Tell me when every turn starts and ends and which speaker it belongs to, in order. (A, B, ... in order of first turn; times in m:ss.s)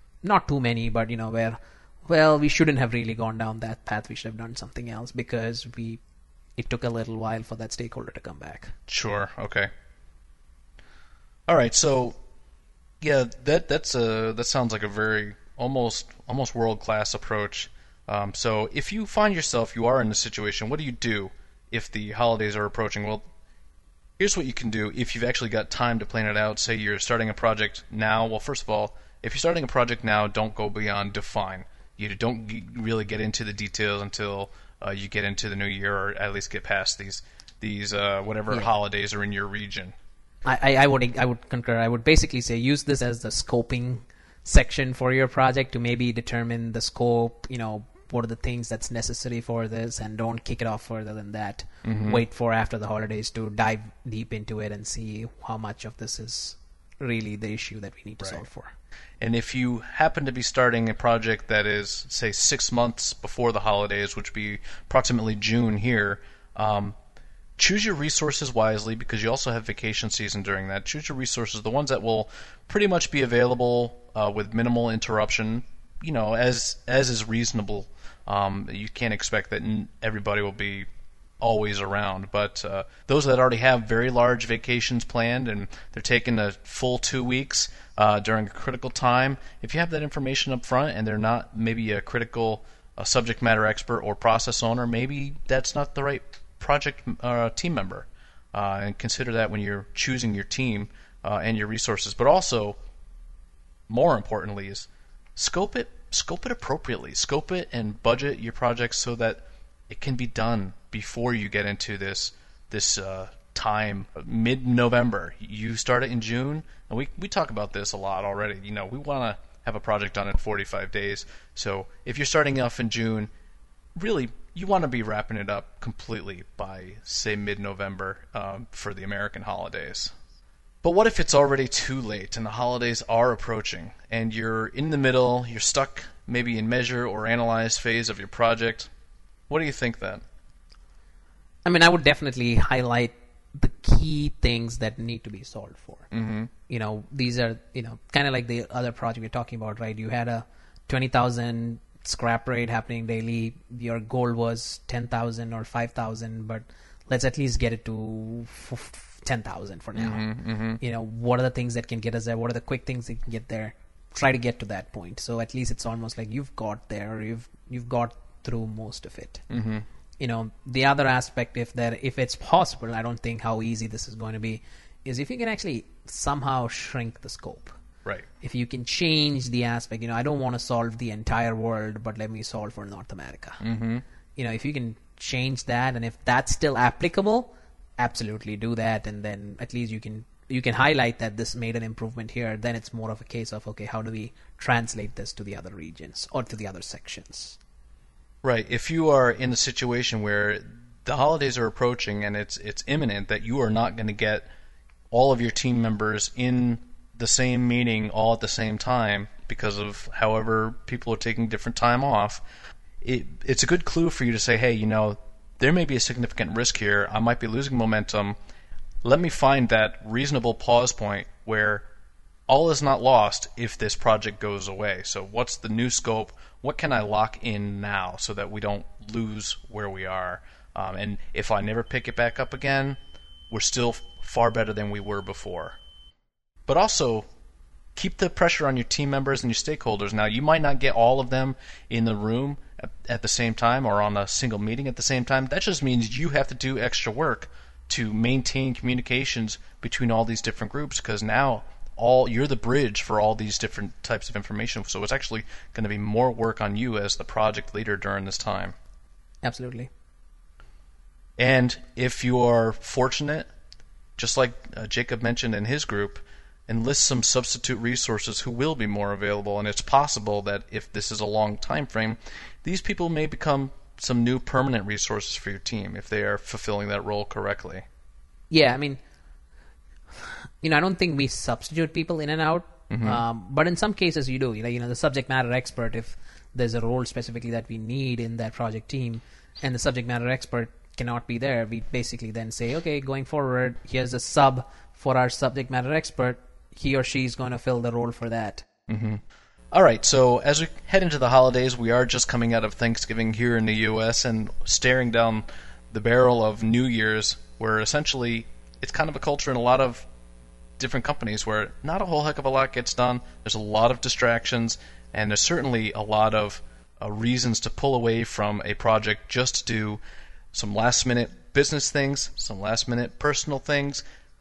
0:00.2-0:06.0 A
0:06.6-0:08.7 A
0:08.9-0:09.7 B
0:11.5-0:12.2 B
0:13.0-0:23.2 B
0:24.2-0:39.9 B
0:40.4-0:58.7 A
0:51.8-0:52.2 B
0:59.2-1:07.0 B
1:07.6-1:20.9 B
1:21.4-1:42.8 B
1:43.9-2:03.3 B
2:04.0-2:10.1 B
2:10.8-2:18.9 B
2:19.5-2:20.2 B
2:21.6-2:26.1 A
2:26.1-2:26.5 B
2:26.7-2:49.4 A
2:39.9-2:40.8 B
2:49.5-2:49.8 B
2:50.2-2:57.8 A
2:58.4-3:03.6 A
3:03.6-3:04.0 B
3:04.4-3:17.6 A
3:18.4-3:24.5 B
3:25.1-3:32.4 B
3:33.0-3:38.4 B
3:39.0-3:41.8 B
3:42.5-3:53.0 B
3:53.5-3:55.8 B
3:56.7-3:57.3 B
3:58.0-4:18.7 B
4:19.4-4:19.9 A
4:21.4-4:23.5 B
4:24.2-4:37.8 B
4:38.5-4:39.0 A
4:40.2-4:58.6 A
4:42.9-4:43.2 B
4:58.9-5:10.1 B
5:10.8-5:20.0 B
5:20.5-5:24.0 B